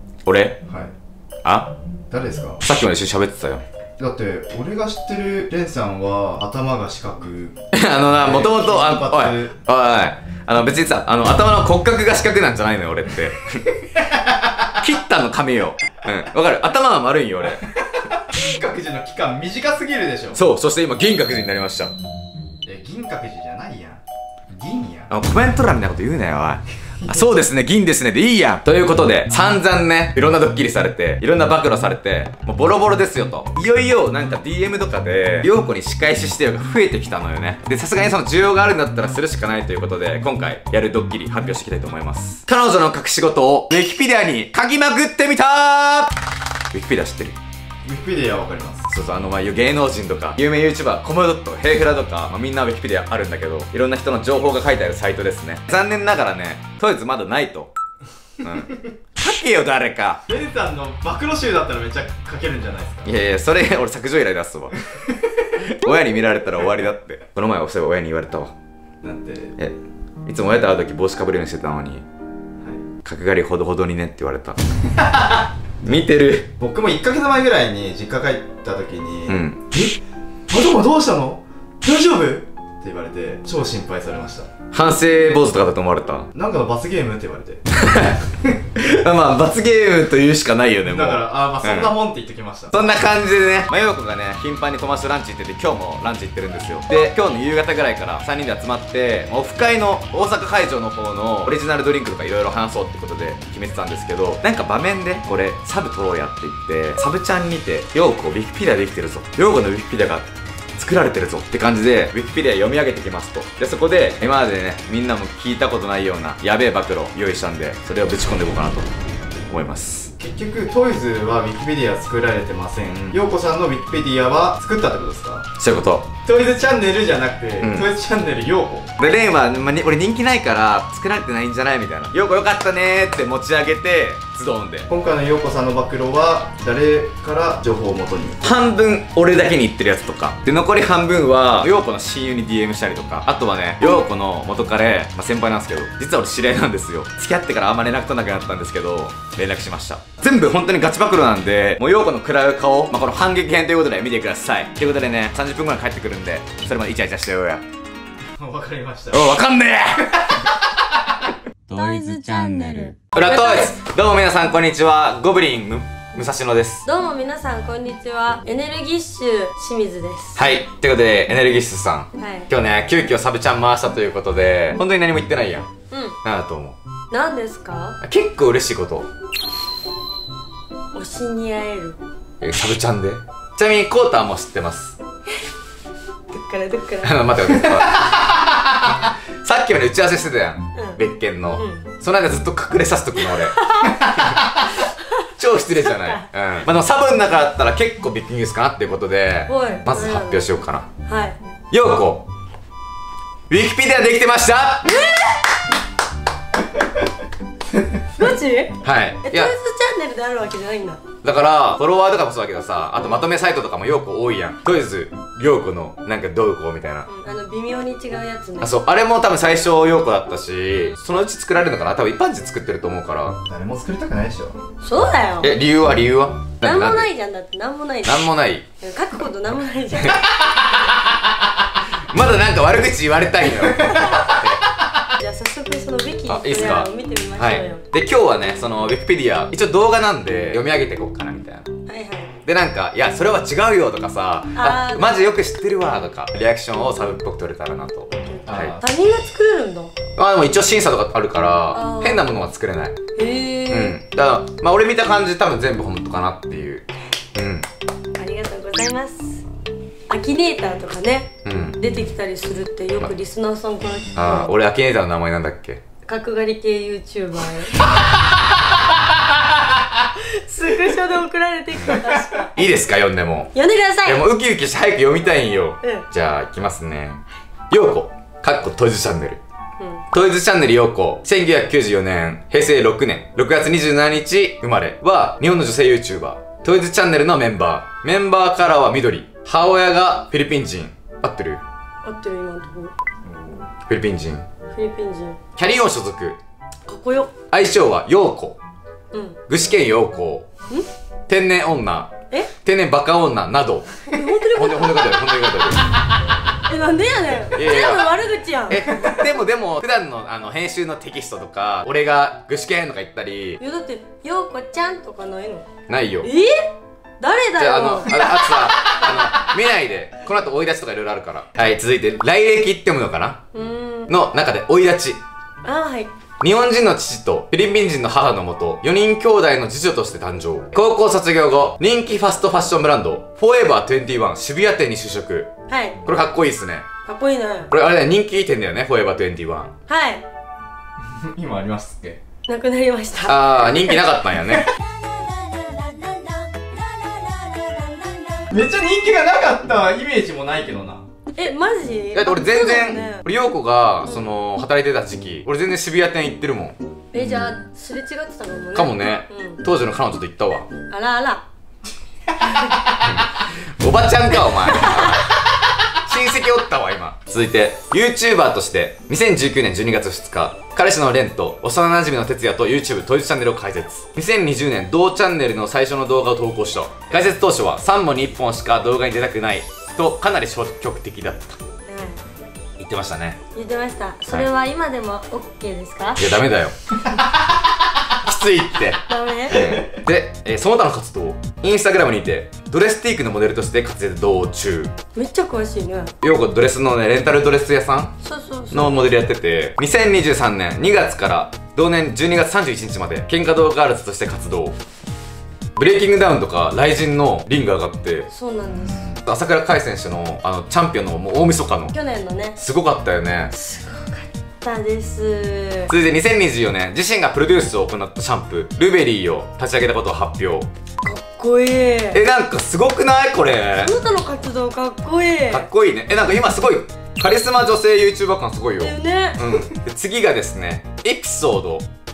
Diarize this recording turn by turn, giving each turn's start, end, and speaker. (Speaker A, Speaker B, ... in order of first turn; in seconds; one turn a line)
Speaker A: 0.2-0.6
Speaker B: 0.7-0.9
Speaker A: 1.4-1.7
Speaker B: 2.1-2.6
Speaker A: 2.6-3.6
Speaker B: 4.0-7.6
Speaker A: 7.7-13.7
Speaker B: 8.1-9.6
Speaker B: 14.1-14.5
Speaker A: 14.8-17.7
Speaker B: 17.9-20.4
Speaker A: 20.3-21.9
Speaker B: 22.6-25.1
Speaker A: 25.1-46.1
Speaker A: 46.7-47.4
Speaker B: 47.8-48.9
Speaker A: 48.9-57.7
Speaker A: 58.4-60.2
Speaker B: 60.3-63.1
Speaker A: 63.0-64.8
Speaker A: 65.5-68.5
Speaker B: 69.0-69.6
Speaker A: 70.2-72.0
Speaker A: 73.0-74.6
Speaker B: 75.0-75.4
Speaker A: 75.8-76.5
Speaker B: 76.6-80.0
Speaker A: 79.3-79.7
Speaker B: 80.5-84.5
Speaker A: 84.7-86.3
Speaker B: 86.3-87.6
Speaker A: 87.7-91.9
Speaker B: 90.9-92.9
Speaker A: 92.7-118.9
Speaker A: 119.5-120.1
Speaker B: 120.2-125.5
Speaker A: 125.6-126.1
Speaker B: 126.2-128.9
Speaker A: 127.6-127.9
Speaker A: 129.0-134.9
Speaker B: 134.9-138.4
Speaker A: 138.4-157.6
Speaker B: 158.4-159.3
Speaker A: 159.1-160.5
Speaker C: 161.7-163.7
Speaker A: 163.1-166.8
Speaker C: 166.8-170.4
Speaker A: 170.3-175.7
Speaker C: 172.2-172.5
Speaker C: 175.9-176.2
Speaker A: 176.2-176.8
Speaker C: 177.1-178.0
Speaker A: 178.0-179.1
Speaker C: 180.9-182.0
Speaker A: 182.4-185.0
Speaker C: 186.3-187.7
Speaker A: 187.0-188.3
Speaker A: 189.4-194.5
Speaker C: 190.7-191.0
Speaker C: 191.6-191.9
Speaker C: 193.3-194.2
Speaker A: 195.4-200.9
Speaker C: 195.8-196.2
Speaker C: 199.5-200.4
Speaker C: 201.1-201.3
Speaker A: 201.7-202.3
Speaker A: 203.5-204.9
Speaker C: 204.8-205.5
Speaker C: 208.2-211.0
Speaker A: 208.8-209.5
Speaker A: 211.2-217.1
Speaker C: 217.1-218.7
Speaker A: 218.6-223.4
Speaker B: 223.5-224.6
Speaker C: 224.8-225.5
Speaker A: 225.4-227.1
Speaker C: 226.6-228.3
Speaker A: 228.0-228.6
Speaker C: 228.8-230.4
Speaker A: 230.0-231.3
Speaker A: 232.1-234.6
Speaker C: 233.9-234.3
Speaker C: 235.2-237.8
Speaker A: 236.3-241.7
Speaker C: 241.9-242.3
Speaker A: 242.4-248.8
Speaker C: 244.5-245.3
Speaker C: 248.1-249.9
Speaker B: 248.5-248.8
Speaker A: 250.2-253.0
Speaker C: 251.7-252.3
Speaker C: 253.2-253.9
Speaker A: 253.7-257.6
Speaker C: 258.2-259.4
Speaker C: 260.1-264.5
Speaker A: 261.4-261.8
Speaker A: 264.1-265.8
Speaker C: 266.1-267.9
Speaker C: 270.4-272.5
Speaker A: 272.5-273.5
Speaker C: 273.5-274.2
Speaker A: 274.0-279.4
Speaker C: 279.8-280.0
Speaker A: 280.1-291.6
Speaker C: 292.0-292.9
Speaker A: 293.9-294.4
Speaker C: 294.7-295.4
Speaker A: 295.6-296.4
Speaker C: 296.9-297.3
Speaker A: 297.5-298.6
Speaker C: 299.1-299.4
Speaker A: 299.5-300.5
Speaker A: 301.3-305.9
Speaker C: 304.1-305.4
Speaker C: 306.6-309.1
Speaker A: 307.5-308.1
Speaker A: 308.7-313.6
Speaker C: 313.6-315.7
Speaker A: 315.9-316.3
Speaker C: 316.2-318.6
Speaker A: 317.6-323.4
Speaker C: 323.5-324.1
Speaker A: 324.1-325.2
Speaker C: 325.6-326.1
Speaker A: 326.4-335.5
Speaker C: 335.7-336.0
Speaker A: 336.0-336.9
Speaker C: 337.1-337.7
Speaker A: 337.7-339.7
Speaker C: 339.9-340.2
Speaker B: 341.2-342.2
Speaker C: 342.5-343.9
Speaker A: 343.2-344.7
Speaker B: 348.5-351.0
Speaker C: 351.3-353.2
Speaker A: 352.1-357.5
Speaker C: 357.1-359.6
Speaker A: 358.7-360.7
Speaker C: 360.9-361.4
Speaker A: 362.9-381.6
Speaker C: 381.9-382.2
Speaker A: 382.8-383.4
Speaker C: 383.5-386.2
Speaker A: 386.2-386.7
Speaker A: 388.1-394.9
Speaker C: 389.1-389.7
Speaker C: 395.1-396.1
Speaker A: 396.2-398.2
Speaker C: 398.2-399.1
Speaker A: 398.7-404.7
Speaker A: 405.8-408.3
Speaker C: 408.3-409.1
Speaker A: 409.1-411.9
Speaker C: 411.9-412.6
Speaker A: 412.6-413.5
Speaker C: 413.5-415.9
Speaker A: 415.9-420.7
Speaker C: 421.0-422.2
Speaker A: 422.1-423.9
Speaker C: 423.8-425.7
Speaker A: 425.5-431.9
Speaker C: 428.8-429.5